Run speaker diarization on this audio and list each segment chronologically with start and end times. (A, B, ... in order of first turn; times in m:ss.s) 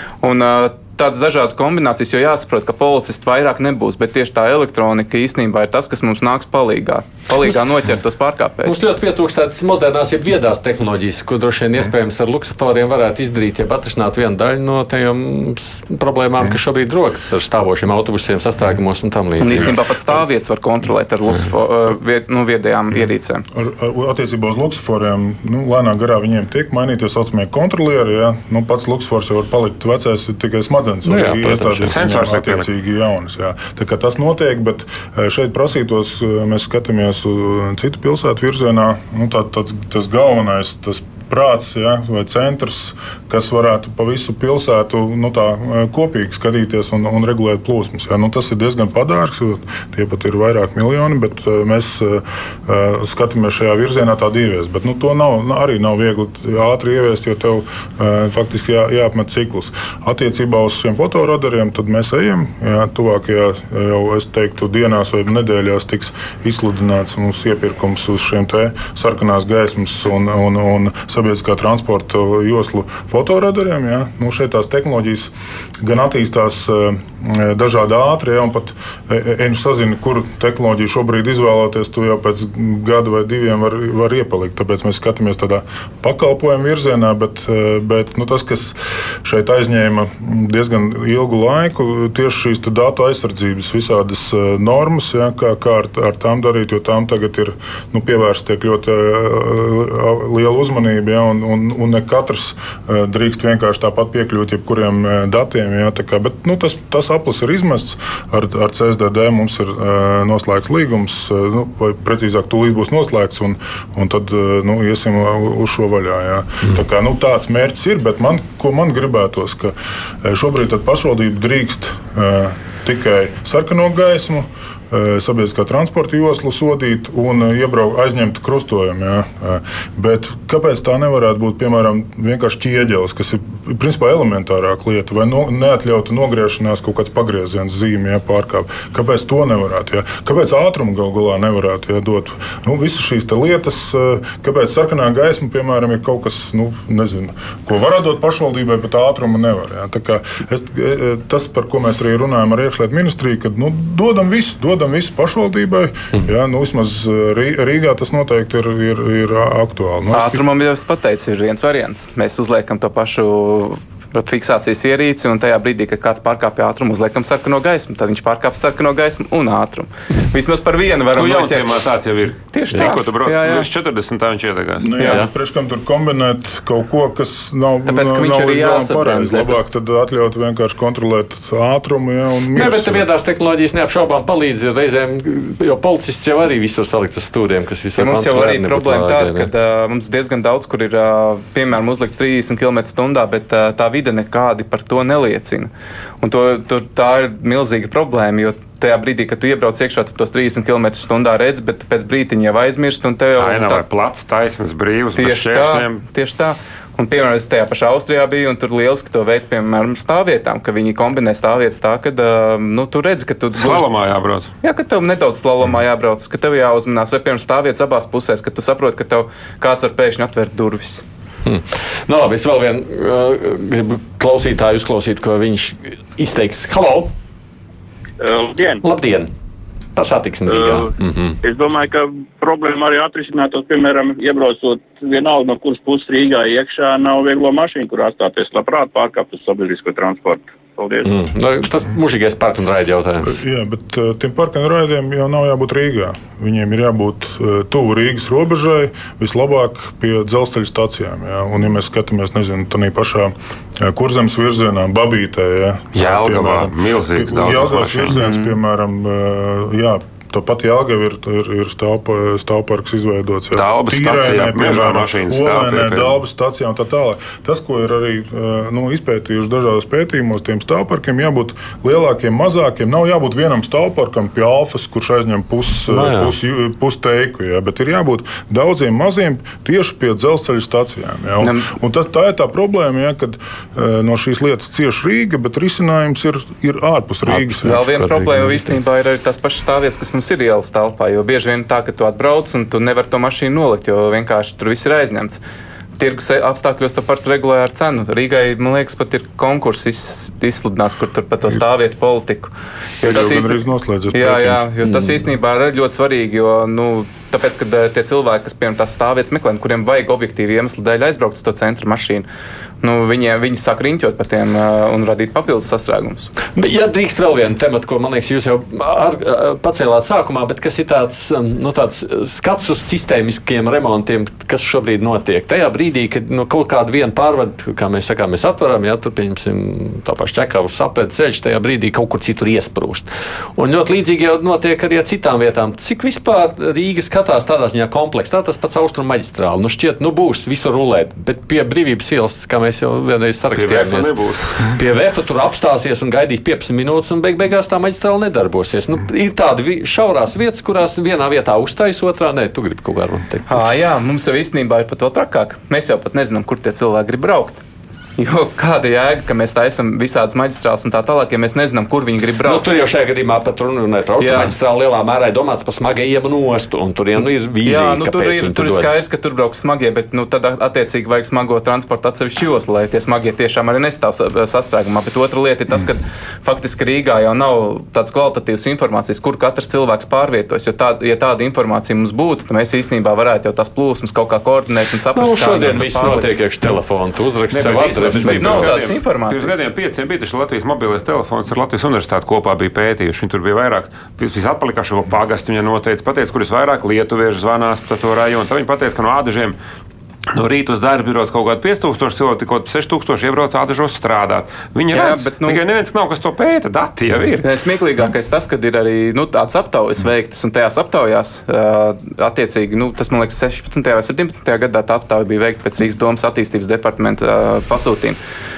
0:00.2-0:08.8 A
0:08.6-0:19.8 B
0:19.4-0:23.4 A
0:23.5-2:40.4 C
0:31.0-0:31.9 B
0:31.9-0:32.7 D
2:40.1-2:51.8 A
2:51.1-2:54.9 D
2:52.5-2:53.7 A
2:54.8-3:03.0 C
2:55.0-2:55.2 A
2:55.0-2:55.3 B
2:57.9-2:59.6 A
3:02.5-3:09.5 B
3:08.0-3:23.8 A
3:23.4-3:26.0 D
3:25.2-3:33.8 A
3:33.6-3:34.5 D
3:34.6-3:41.0 A
3:41.4-3:47.1 B
3:48.2-3:48.8 E
3:48.8-3:49.3 B
3:50.0-3:51.4 B
3:50.5-3:50.9 E
3:51.4-4:01.1 E
4:01.0-4:03.4 B
4:03.2-4:47.8 C
4:15.9-4:18.2 D
4:18.2-4:18.5 A
4:23.5-4:26.1 D
4:35.9-4:36.3 B
4:41.4-4:41.7 A
4:47.3-4:48.8 B
4:47.6-4:55.4 A
4:56.0-5:03.6 A
5:03.0-5:04.7 C
5:04.1-5:12.2 A
5:12.8-5:16.3 A
5:16.5-5:44.1 B
5:43.6-5:44.8 D
5:44.7-5:53.6 B
5:53.5-5:57.6 A
5:58.2-6:02.6 A
6:02.4-6:09.0 B
6:04.2-6:04.5 A
6:07.6-6:26.3 A
6:25.1-6:28.7 B
6:27.5-6:29.6 A
6:28.2-6:39.6 D
6:40.3-6:47.4 D
6:44.9-6:45.6 A
6:47.4-6:58.2 A